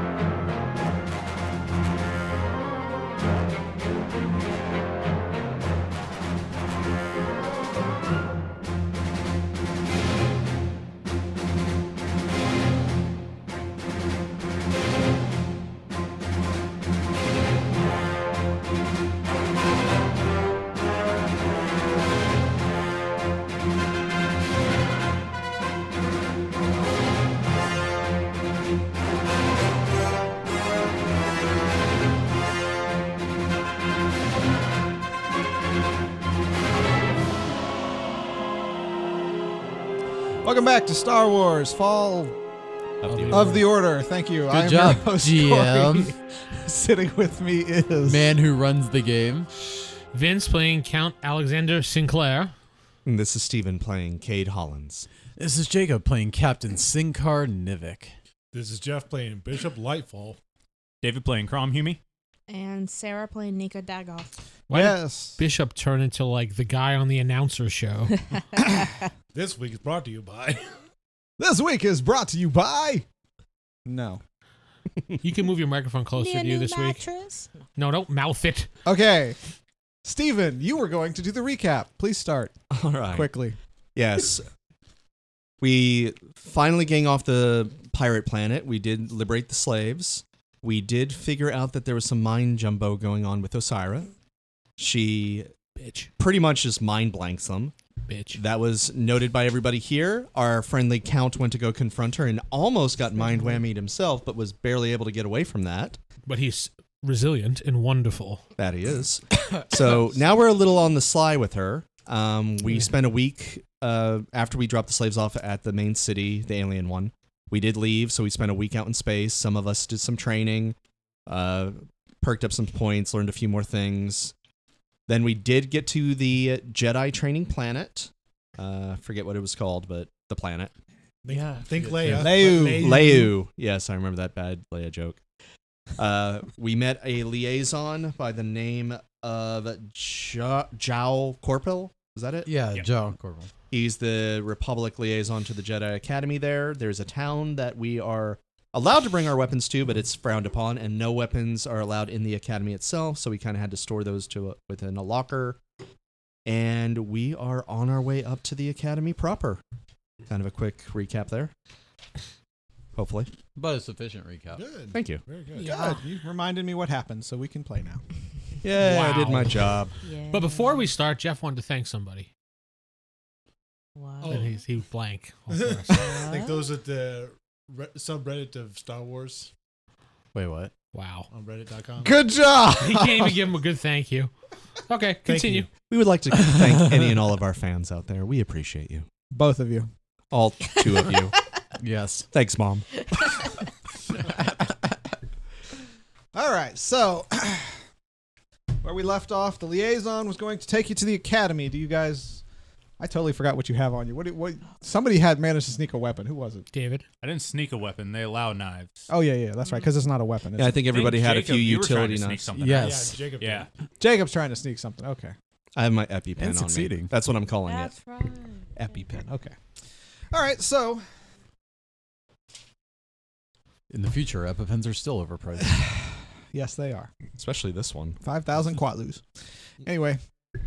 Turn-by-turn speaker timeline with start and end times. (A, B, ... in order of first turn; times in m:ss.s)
0:40.4-0:42.4 A
0:43.0-0:43.7 B
0:43.1-0:43.7 C
0:43.3-0:48.2 A
0:44.5-0:46.1 D
0:48.0-0:49.5 D
0:50.1-0:52.5 C
0:53.0-0:55.1 B
0:55.4-0:58.2 D
0:58.5-1:00.4 E
1:01.0-1:02.0 F
1:02.5-1:04.3 G
1:04.7-1:08.2 C
1:04.7-1:05.4 A
1:09.3-1:10.8 E
1:11.4-1:13.1 A
1:13.9-1:14.2 A
1:15.2-1:17.0 C
1:16.2-1:17.6 G
1:17.8-1:18.7 C
1:18.8-1:19.4 A
1:20.0-1:22.6 A
1:22.7-1:23.3 B
1:23.1-1:23.6 A
1:24.0-1:24.5 B
1:25.6-1:34.1 B
1:34.8-1:35.5 B
1:35.8-1:36.1 C
1:36.2-1:37.7 B
1:38.1-1:38.4 C
1:38.3-1:46.0 B
1:46.3-1:48.4 C
1:48.6-2:04.3 B
2:05.1-2:10.7 B
2:11.2-2:13.3 E
2:11.3-2:12.4 D
2:12.2-2:13.1 A
2:12.8-2:15.2 B
2:16.0-2:22.5 B
2:22.5-2:23.5 D
2:23.7-2:35.6 B
2:36.4-2:39.6 B
2:40.3-2:41.5 B
2:43.0-2:43.3 B
2:43.6-2:44.6 D
2:44.6-2:45.7 E
2:44.9-2:45.2 B
2:45.5-2:46.0 G
2:45.6-2:48.0 A
2:48.6-2:50.0 B
2:48.8-2:49.7 C
2:50.0-2:50.9 G
2:50.3-2:52.3 C
2:54.0-2:54.5 G
2:54.2-2:54.6 E
2:54.2-2:56.0 C
2:55.5-2:59.5 E
2:56.0-2:56.7 G
3:00.3-3:00.7 D
3:00.9-3:01.3 C
3:01.3-3:02.2 E
3:02.0-3:03.4 A
3:02.8-3:04.3 C
3:04.9-3:05.7 C
3:05.2-3:05.7 E
3:05.9-3:09.1 B
3:06.4-3:06.9 D
3:09.3-3:09.9 A
3:10.3-3:11.4 B
3:11.8-3:12.3 D
3:12.3-3:12.9 B
3:14.2-3:14.6 D
3:16.3-3:17.8 A
3:18.8-3:22.4 A
3:23.0-3:26.7 A
3:26.7-3:27.0 C
3:27.2-3:29.1 F
3:29.1-3:30.8 A
3:30.6-3:32.5 B
3:30.9-3:33.7 F
3:32.5-3:33.2 D
3:32.7-3:33.7 E
3:34.0-3:35.4 A
3:35.8-3:38.0 B
3:36.4-3:37.1 D
3:37.6-3:39.0 G
3:38.8-3:39.6 A
3:40.3-3:41.0 A
3:43.9-3:45.8 D
3:45.8-3:47.1 A
3:47.4-3:48.2 B
3:48.2-3:49.2 A
3:49.8-3:50.2 A